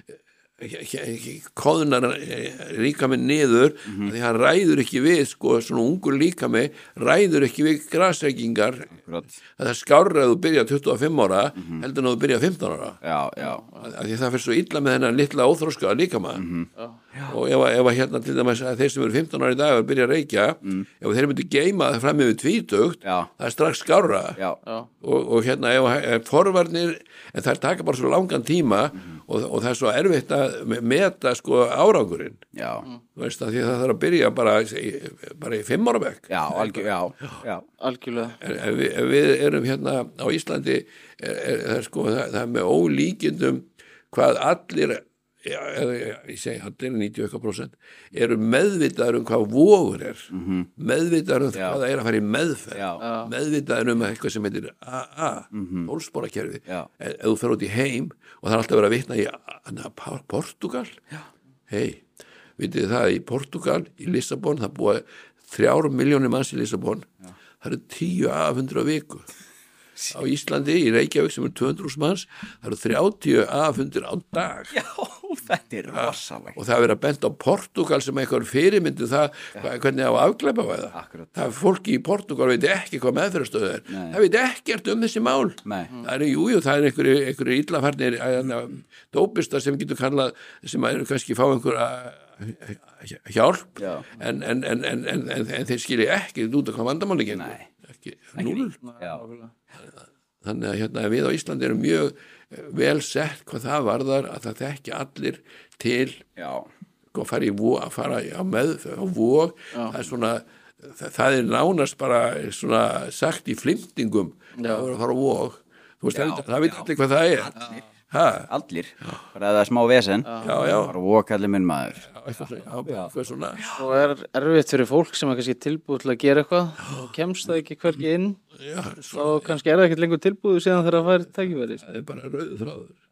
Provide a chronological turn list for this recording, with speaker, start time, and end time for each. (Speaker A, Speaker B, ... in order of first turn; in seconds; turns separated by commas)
Speaker A: 0.6-8.9, Speaker B: 3.9-4.1, Speaker B: 8.9-9.3, Speaker A: 9.6-13.0, Speaker B: 11.6-11.8, Speaker B: 13.0-13.7, Speaker A: 13.6-16.4, Speaker B: 16.4-17.4, Speaker A: 17.3-24.4, Speaker B: 23.0-23.3, Speaker A: 25.0-32.5, Speaker B: 32.5-32.9, Speaker A: 33.1-36.9, Speaker B: 36.3-37.7, Speaker C: 37.8-38.4, Speaker A: 38.3-60.9, Speaker B: 50.3-50.7, Speaker B: 51.5-51.8, Speaker B: 52.7-53.1, Speaker C: 53.0-53.3, Speaker B: 55.5-55.9, Speaker A: 61.7-62.0, Speaker A: 62.6-67.1, Speaker A: 67.6-69.3, Speaker A: 70.1-74.8, Speaker B: 74.7-76.6, Speaker A: 75.9-98.8, Speaker B: 80.9-81.3, Speaker B: 83.9-84.2, Speaker B: 85.7-85.9, Speaker B: 93.8-94.1, Speaker B: 97.3-97.7, Speaker B: 98.4-99.3, Speaker C: 98.8-99.5, Speaker A: 100.4-106.2, Speaker B: 106.4-106.7, Speaker A: 107.1-117.5, Speaker C: 114.6-114.9, Speaker B: 116.1-116.9, Speaker B: 117.5-117.8, Speaker A: 118.1-118.5, Speaker B: 118.5-122.1, Speaker C: 120.3-120.6, Speaker A: 120.4-121.0, Speaker A: 122.0-123.8, Speaker B: 122.8-123.8, Speaker C: 123.7-128.4, Speaker A: 128.6-129.6, Speaker C: 129.1-131.8, Speaker A: 131.8-133.0